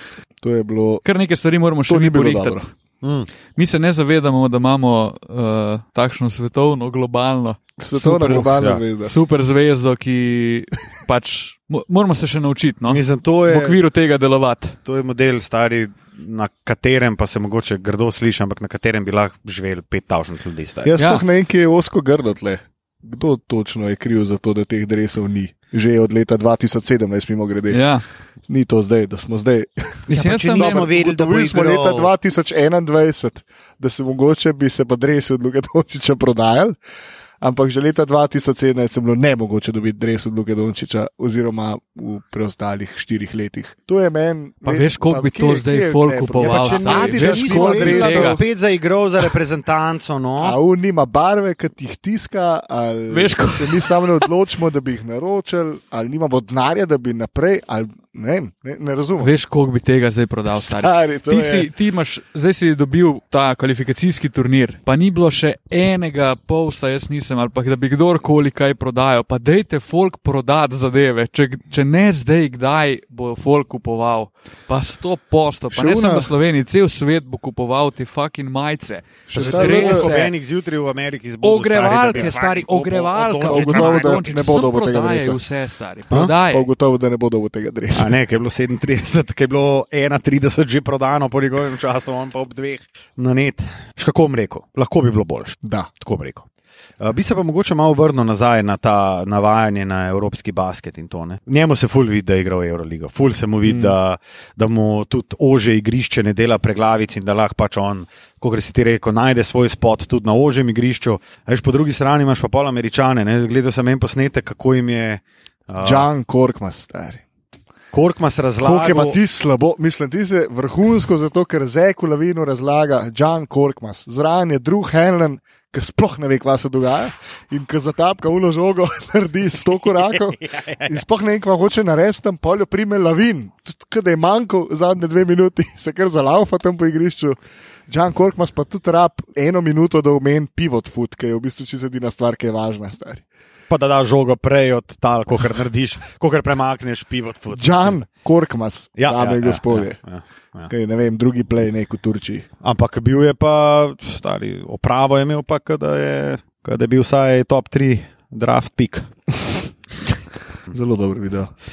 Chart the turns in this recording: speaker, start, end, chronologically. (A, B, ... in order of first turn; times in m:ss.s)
0:00.4-0:01.0 A
0:01.0-0:02.6 B
0:01.9-0:02.7 A
0:03.0-0:03.3 C
0:03.6-0:14.8 B
0:07.8-0:09.1 A
0:12.9-0:13.8 C
0:14.8-0:21.0 C
0:20.8-0:27.8 A
0:21.0-0:21.2 B
0:27.7-0:28.0 B
0:28.5-0:36.8 A
0:30.1-0:32.1 C
0:30.1-0:30.8 B
0:37.4-0:48.4 A
0:44.7-0:48.4 B
0:46.4-0:50.6 C
0:50.4-0:59.3 A
0:53.1-0:54.3 B
0:59.2-1:20.3 B
1:00.5-1:01.7 A
1:15.8-1:16.2 C
1:15.8-1:16.3 A
1:19.3-1:20.1 A
1:19.4-1:24.4 C
1:21.4-1:26.7 B
1:22.1-1:22.4 A
1:23.4-1:25.4 A
1:26.2-1:28.2 A
1:28.0-1:36.5 C
1:35.6-1:35.9 A
1:37.0-1:56.1 C
1:43.7-1:43.9 A
1:55.8-1:57.2 A
1:57.9-1:59.2 C
1:58.6-2:17.4 A
2:10.4-2:10.9 C
2:17.9-2:23.2 A
2:23.7-2:28.0 C
2:27.5-2:30.0 A
2:29.0-2:30.7 C
2:30.7-2:32.5 A
2:32.6-2:39.1 C
2:40.7-2:41.5 A